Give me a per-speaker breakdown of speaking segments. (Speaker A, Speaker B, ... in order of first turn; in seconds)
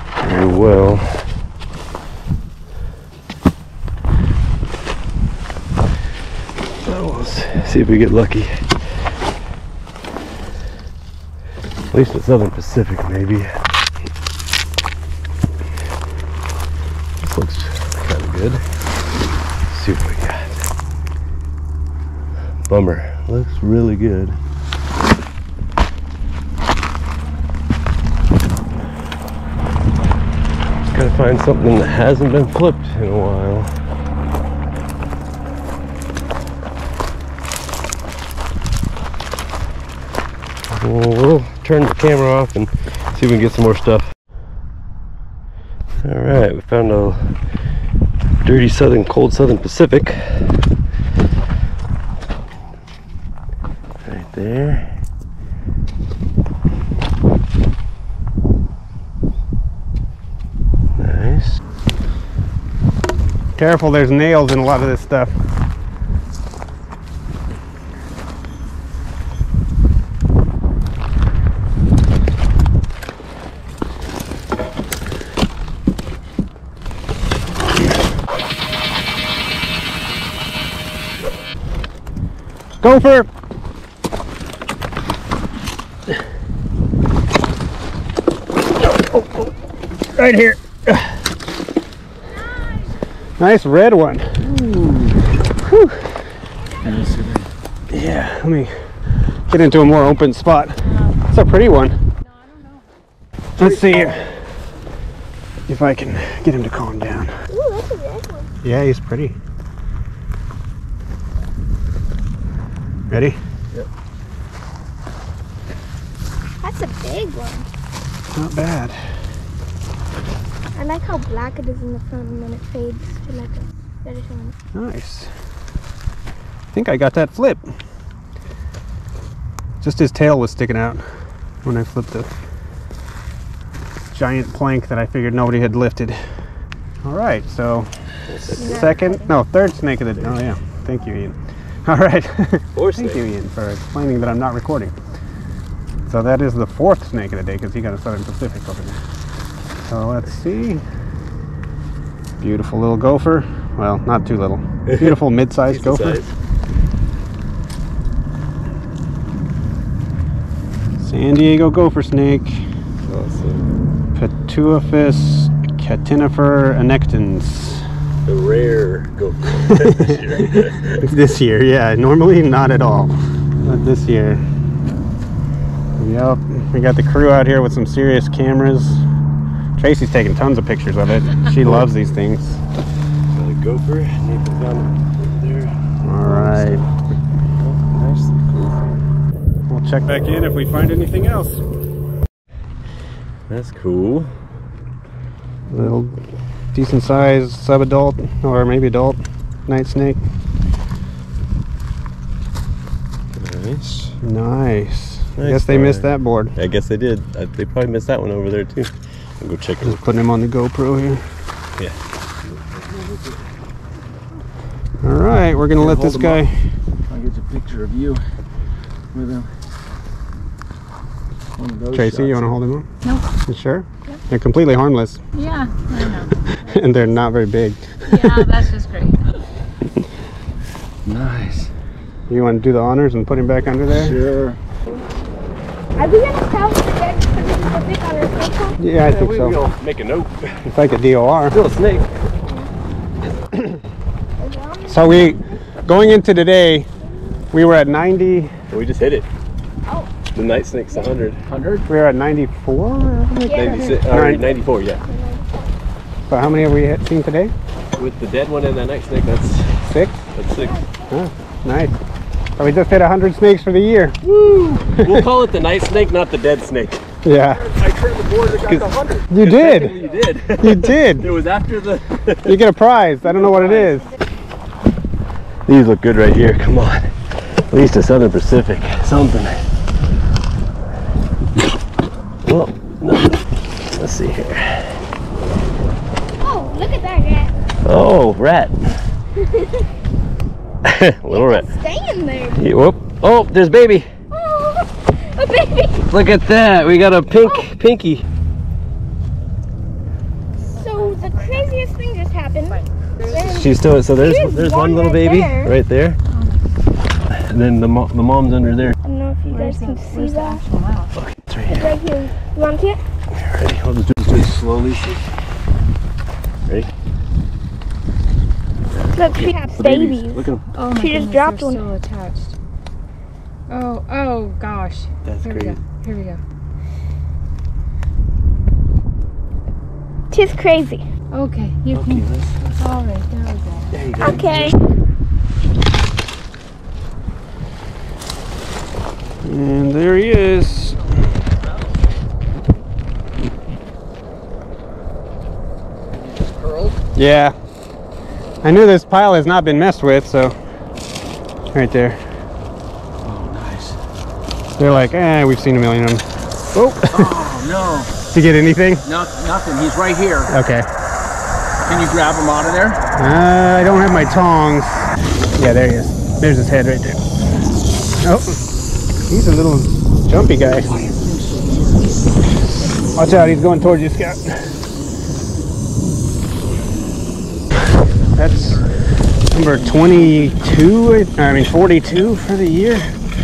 Speaker A: 0.2-1.3, 6.8-8.8, 11.9-13.6, 17.2-18.6, 19.7-20.7, 22.7-24.4, 30.9-33.7, 40.7-44.1, 46.0-47.4, 48.4-50.6, 54.0-55.0, 61.0-61.5, 138.3-138.9, 142.8-143.2, 154.9-156.3, 163.0-163.7, 168.2-171.1, 183.3-186.9, 187.6-188.8, 193.5-194.3, 203.3-204.1, 205.4-210.2, 239.0-240.8, 241.5-242.1, 248.7-249.3, 250.3-251.4, 253.5-255.0, 258.0-260.8, 264.2-267.1, 267.7-272.6, 275.7-279.6, 282.4-285.0, 287.8-289.0, 290.8-291.7, 292.5-294.1, 296.1-298.3, 303.4-306.2, 307.3-308.9, 311.1-311.9, 313.3-314.2, 318.9-319.5, 325.3-325.7, 331.9-332.8, 333.9-334.6
Speaker B: 63.6-65.4, 82.8-83.3, 89.1-89.4, 90.2-91.2, 93.4-94.5, 95.6-96.1, 97.9-98.9, 99.5-102.0, 103.6-104.4, 105.7-107.3, 108.6-109.4, 113.1-113.4, 118.3-119.0, 124.7-125.3, 126.7-127.7, 129.8-131.0, 131.7-132.3, 134.1-136.4, 137.0-137.9, 138.6-144.9, 146.1-149.0, 149.9-150.8, 152.4-156.2, 161.0-162.6, 164.2-167.9, 169.8-174.5, 176.0-179.0, 179.8-182.6, 186.0-186.9, 189.7-191.6, 195.7-196.2, 196.7-200.2, 204.2-206.6, 209.8-211.3, 215.0-216.7, 221.9-222.9, 223.5-225.2, 226.6-228.5, 232.3-234.2, 238.8-239.6, 240.7-241.6, 243.5-243.8, 244.9-246.9, 247.5-248.5, 251.9-254.5, 256.3-257.5, 259.8-260.2, 261.1-262.0, 262.6-264.2, 264.9-265.3, 267.2-267.7, 269.3-270.0, 270.6-271.3, 272.4-274.1, 339.4-341.3, 347.1-347.6, 348.6-350.6, 351.7-352.3, 354.8-357.3, 358.3-359.0, 360.5-360.9, 363.2-367.2, 368.2-368.6, 369.3-370.9, 373.2-374.7, 378.4-378.9, 379.5-383.2
Speaker C: 94.5-95.2, 96.8-97.5, 212.5-213.5, 215.8-216.4, 217.1-218.3, 219.1-219.5, 221.6-222.6, 231.1-231.7, 233.9-234.6, 251.5-251.8, 314.2-315.3, 319.3-320.6, 325.3-325.6, 331.9-332.3, 333.9-334.6, 346.1-347.0, 353.2-354.0, 357.1-358.1, 359.0-360.5, 361.8-363.0, 370.9-372.2, 378.6-378.9
Speaker D: 100.8-101.2, 102.2-102.9, 223.0-223.3, 225.3-226.9, 228.1-229.2, 300.6-301.8, 302.6-303.5, 306.3-306.6, 309.5-311.2, 320.7-322.6, 323.7-326.4, 331.3-332.3, 332.8-333.9
Speaker E: 107.5-108.5, 116.6-117.7, 120.8-124.5, 138.6-139.3, 236.0-238.8, 244.4-245.5, 253.2-254.1, 255.0-255.7, 260.6-260.9, 286.4-287.5, 289.4-289.8, 291.3-292.7, 294.3-296.1, 297.4-297.7, 300.6-305.7, 309.0-310.6, 311.7-313.0, 319.1-321.8, 330.3-331.1, 334.2-334.8